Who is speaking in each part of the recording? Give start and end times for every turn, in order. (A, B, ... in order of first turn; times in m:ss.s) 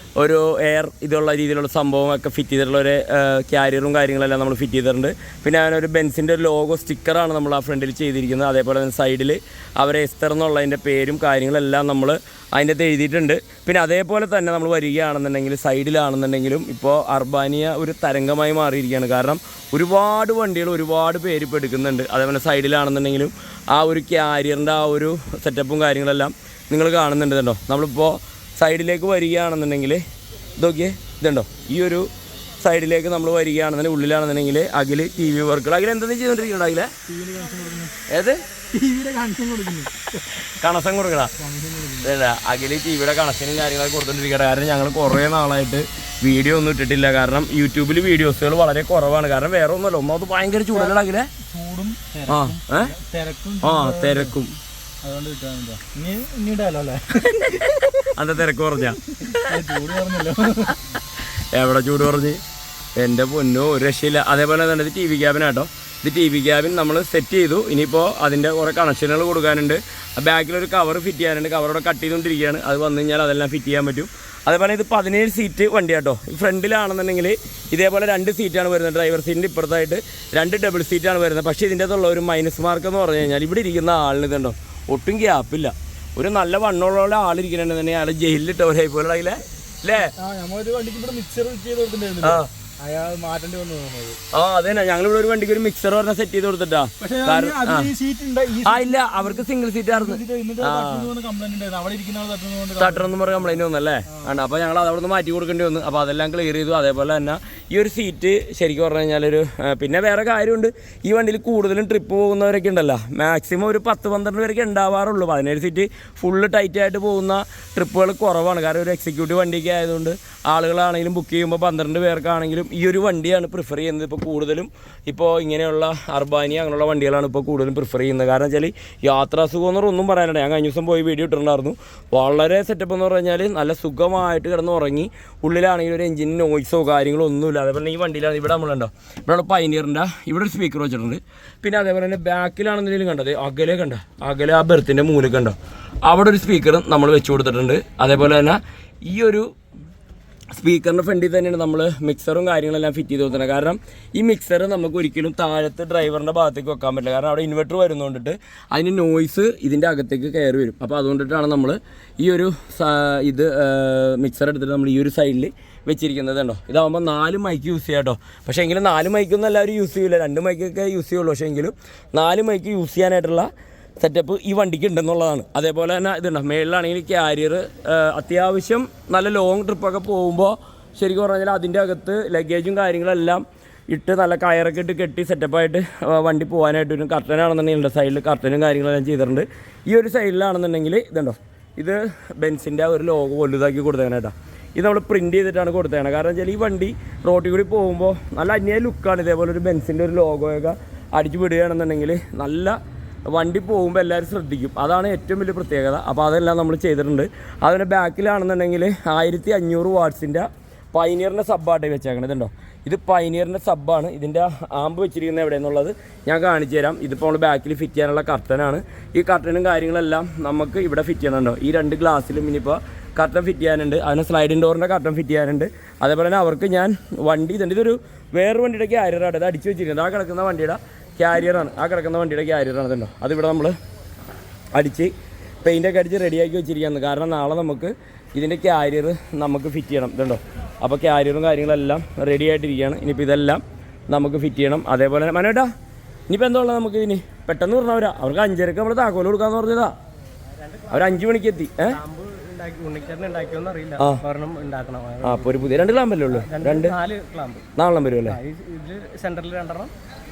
0:00.2-0:30.0 A
0:30.6-0:32.1 A
0:32.6-0:36.9 A
0:37.1-0:38.0 B
0:38.1-0:38.4 A
0:38.7-0:40.3 B
0:40.4-0:41.3 A
0:41.4-0:42.1 B
0:42.0-0:51.3 A
0:50.7-0:54.4 B
0:52.3-0:52.9 A
0:53.6-0:54.6 A
0:55.0-0:58.0 B
0:57.5-0:59.5 A
0:59.2-1:00.9 B
1:01.2-1:02.4 A
1:03.0-1:30.1 A
1:30.2-1:34.2 B
1:32.2-1:32.5 A
1:34.3-1:37.9 A
1:37.0-1:44.4 B
1:38.6-1:41.1 A
1:42.8-2:29.5 A
2:30.5-2:53.5 A
2:54.0-3:22.8 A
3:23.3-3:53.8 A
3:54.8-4:05.7 A
4:06.3-4:09.9 A
4:10.6-4:11.2 C
4:10.9-4:12.0 A
4:11.8-4:17.6 C
4:15.2-4:17.0 A
4:17.8-4:18.4 A
4:18.2-4:19.9 C